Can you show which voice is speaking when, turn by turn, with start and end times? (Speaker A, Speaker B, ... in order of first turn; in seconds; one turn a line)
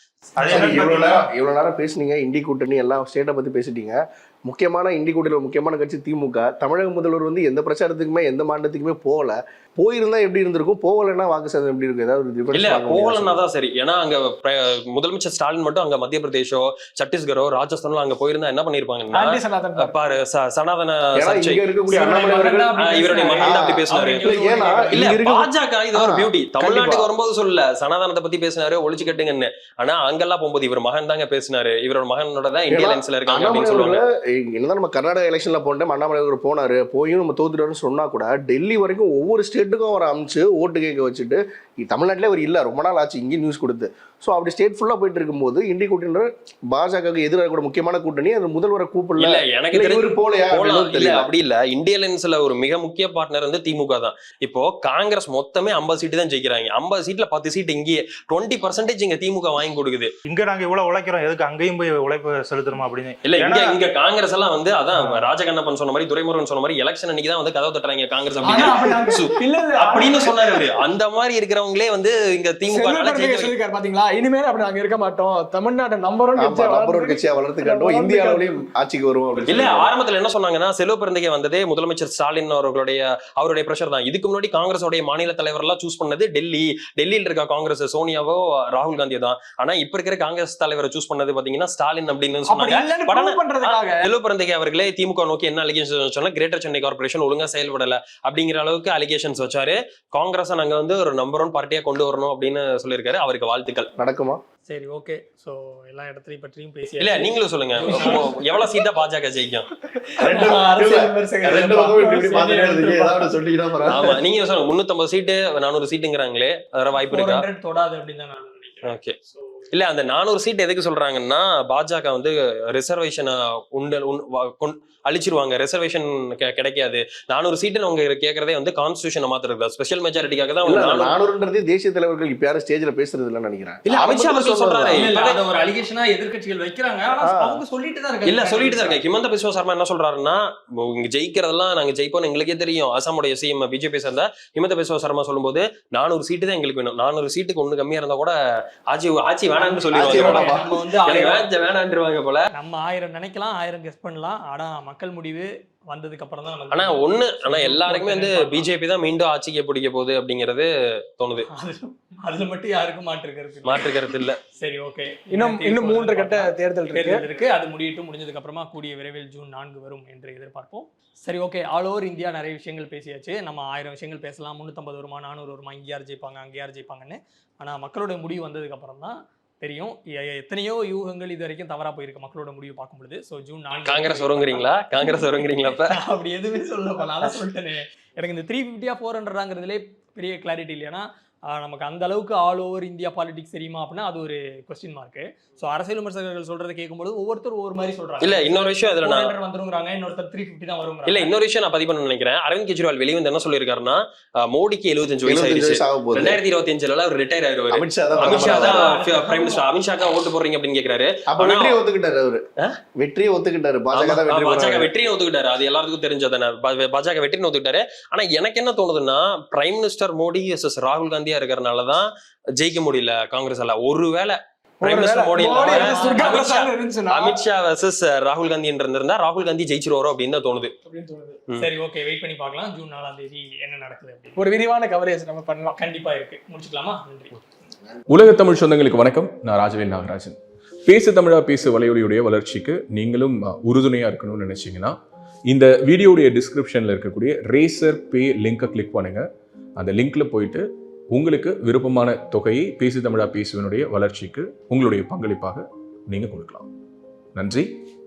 Speaker A: 0.3-1.3
Speaker B: 0.5-13.4
Speaker C: 12.5-21.6
Speaker D: 19.1-19.9
Speaker B: 21.1-22.8
Speaker E: 21.9-25.1
Speaker C: 22.8-24.2
Speaker B: 23.4-27.1
Speaker C: 24.9-34.0
Speaker B: 32.7-51.3
Speaker C: 49.2-60.1
Speaker A: 60.3-63.8
Speaker C: 63.2-73.5
Speaker A: 65.0-65.3
Speaker D: 68.4-70.7
Speaker D: 72.7-78.5
Speaker B: 76.4-79.9
Speaker C: 79.4-103.9
Speaker D: 92.5-94.1
Speaker B: 104.0-104.4
Speaker E: 104.7-108.5
Speaker C: 107.0-109.7
Speaker E: 110.1-113.3
Speaker B: 110.2-114.2
Speaker C: 113.9-117.4
Speaker E: 117.1-119.0
Speaker C: 118.9-119.1
Speaker C: 119.7-131.1
Speaker B: 130.6-135.1
Speaker C: 133.9-135.4
Speaker E: 134.9-139.0
Speaker B: 137.2-137.6
Speaker C: 138.2-148.3
Speaker C: 148.9-152.5
Speaker E: 149.5-151.5
Speaker B: 149.9-150.7
Speaker E: 152.5-158.7
Speaker C: 156.7-161.5
Speaker E: 161.5-163.9
Speaker C: 163.7-164.4
Speaker E: 164.5-201.3
Speaker D: 165.3-167.2
Speaker C: 183.8-185.9
Speaker C: 198.2-199.3
Speaker C: 201.1-211.8
Speaker B: 205.2-206.4
Speaker B: 207.7-208.9
Speaker E: 208.2-209.7
Speaker B: 211.3-212.4
Speaker B: 213.0-214.9
Speaker C: 213.9-230.7
Speaker D: 224.8-227.4
Speaker E: 225.6-226.7
Speaker D: 230.8-231.4
Speaker E: 231.6-234.4
Speaker D: 234.4-235.8
Speaker E: 235.8-237.3
Speaker F: 238.1-245.0
Speaker F: 245.5-249.2
Speaker F: 249.8-256.7
Speaker F: 257.3-257.7